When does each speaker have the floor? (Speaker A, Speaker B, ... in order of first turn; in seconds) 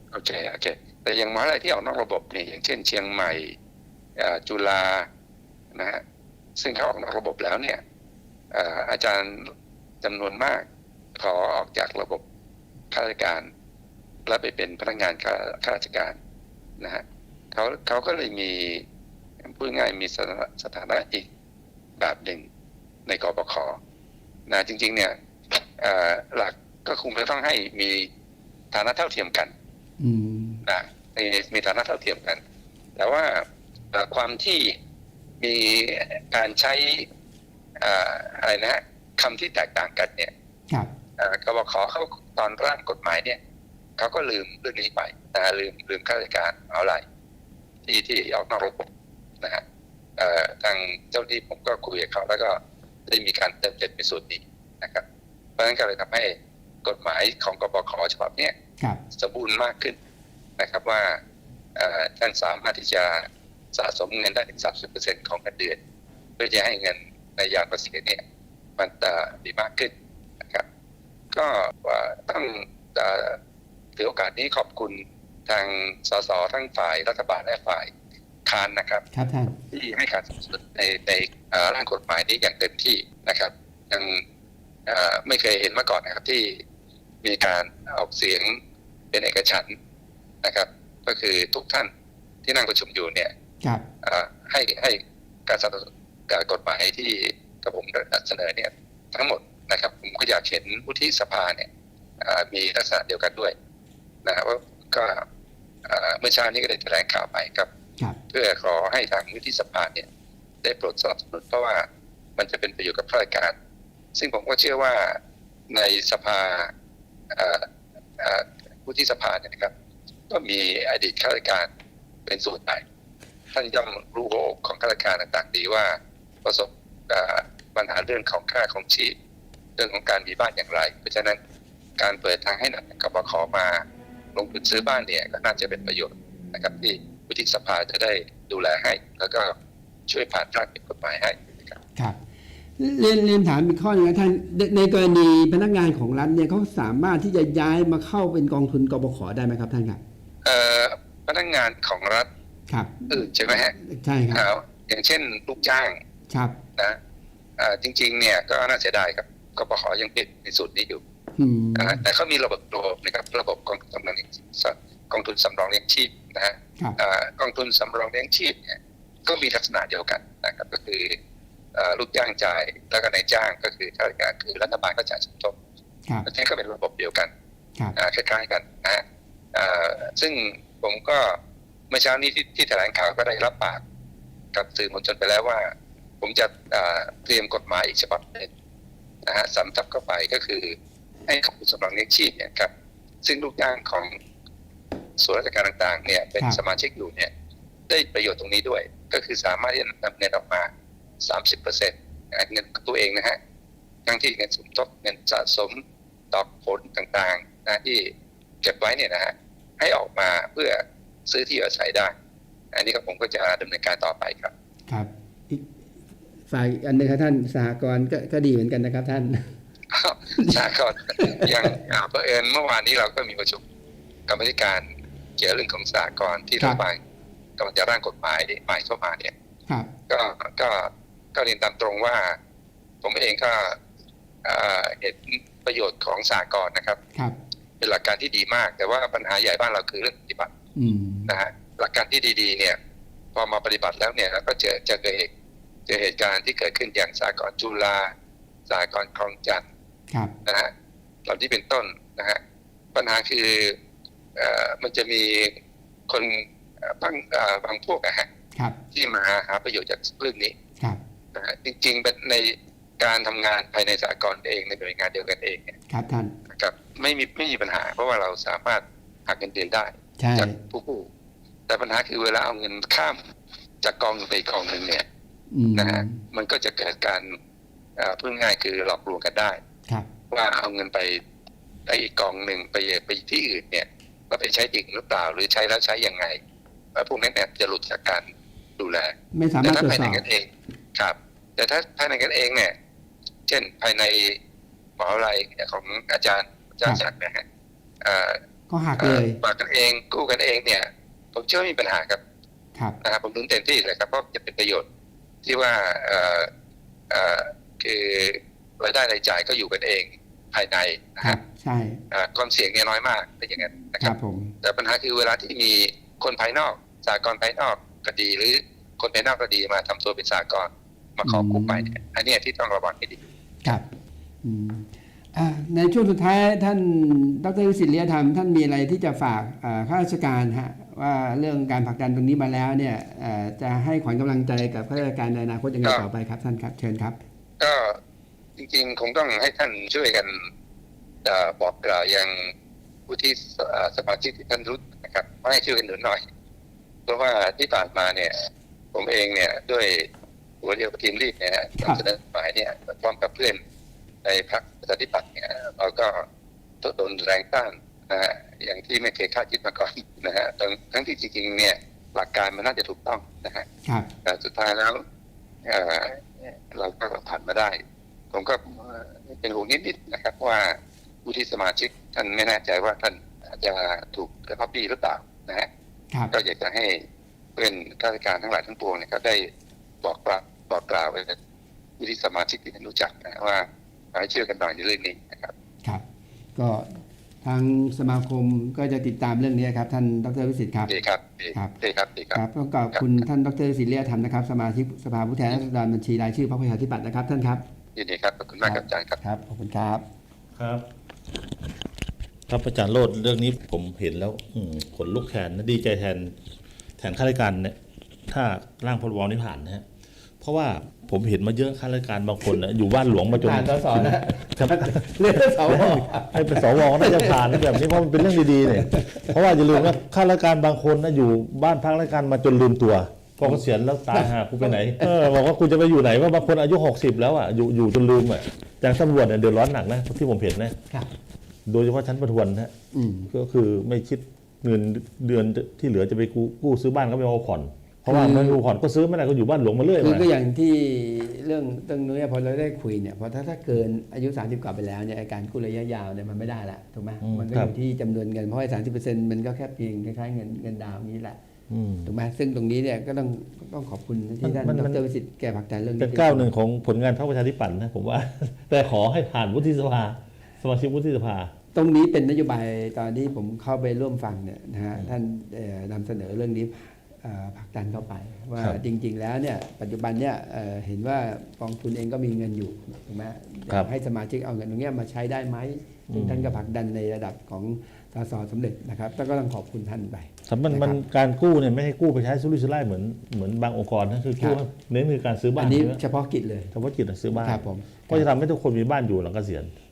Speaker A: 0.1-3.6, 4.2-5.1, 5.7-6.0, 6.6-7.8, 8.5-12.2, 12.9-13.5, 14.3-16.2, 16.8-18.9, 19.4-21.3, 22.0-22.5, 23.1-23.8, 24.5-28.1, 28.7-29.5, 30.7-32.4, 33.0-34.8, 35.4-37.1, 37.8-40.3, 41.2-43.4, 44.0-47.0, 47.9-48.9, 50.2-55.0, 55.6-58.5, 59.1-60.0, 60.6-61.2, 61.8-65.8, 66.4-68.2, 68.8-69.9, 71.3-73.4, 74.0-77.9, 78.5-79.0, 79.7-84.2, 84.9-86.6, 87.2-88.6, 89.1-89.8, 90.4-91.9, 92.5-93.3, 94.0-101.7, 102.2-103.5, 104.2-105.3, 105.8-107.7, 108.3-110.1, 110.6-113.5, 114.1-116.7, 117.3-119.7, 120.3-121.7, 122.3-122.8, 123.5-129.2, 129.8-131.4, 132.0-139.6, 140.1-141.8, 150.4-152.3, 153.1-153.8, 154.3-156.0, 157.6-161.0, 161.8-171.2, 171.7-175.6, 176.3-177.3, 177.9-181.4, 181.9-183.8, 184.5-188.5, 189.2-192.7, 193.2-194.2, 195.2-197.3, 197.9-200.7, 201.2-203.4, 204.1-212.1, 212.7-214.5, 219.9-223.6, 224.3-224.9, 225.4-227.0, 227.6-229.3, 230.1-232.4, 233.0-233.8, 234.4-237.0, 237.8-240.5, 241.3-242.8, 243.3-245.3, 245.9-248.1, 248.7-249.7, 250.4-250.7, 251.2-252.4, 252.9-253.8, 254.4-258.3, 258.9-260.6, 261.3-265.8, 266.5-271.1, 271.7-273.2, 273.8-275.1, 275.8-277.4, 278.0-279.6, 280.3-281.2, 281.9-286.4, 286.9-292.8, 293.5-294.4, 295.0-297.4, 298.0-298.4, 299.0-302.2, 303.0-304.9, 305.4-306.5, 307.1-311.4, 312.1-323.2, 337.6-338.0, 338.6-340.5, 341.2-342.5, 343.1-346.2, 347.1-350.1, 350.6-353.6, 354.2-356.3, 356.8-363.7, 364.2-365.0, 365.6-367.8, 368.3-375.7, 376.3-377.0, 377.6-379.5, 380.0-381.4, 382.0-385.5, 390.9-392.4, 398.0-399.2
Speaker B: 30.0-30.6, 79.1-79.6, 142.8-150.0, 152.7-153.1, 153.8-154.5, 156.3-156.6, 161.4-162.1, 214.9-215.7, 216.5-219.6, 221.2-221.7, 240.8-241.3, 265.9-266.4, 270.2-270.6, 275.5-276.2, 289.3-290.2, 298.7-299.4, 311.2-312.0, 313.9-314.5, 321.2-321.9, 324.4-337.2, 386.6-390.9, 392.3-397.6, 398.6-400.0, 413.4-417.9, 418.8-419.9, 424.1-425.1, 432.9-433.3, 438.1-438.6, 440.0-451.4, 452.1-456.5, 461.8-481.0, 485.6-486.7, 487.4-488.3
Speaker C: 400.6-400.9, 402.5-406.3, 407.0-407.8, 408.3-409.9, 410.4-430.8, 431.7-432.7, 433.3-440.3, 447.2-447.7, 451.7-452.1, 454.4-455.0, 456.0-461.5, 476.1-476.5, 480.5-486.0, 486.7-489.7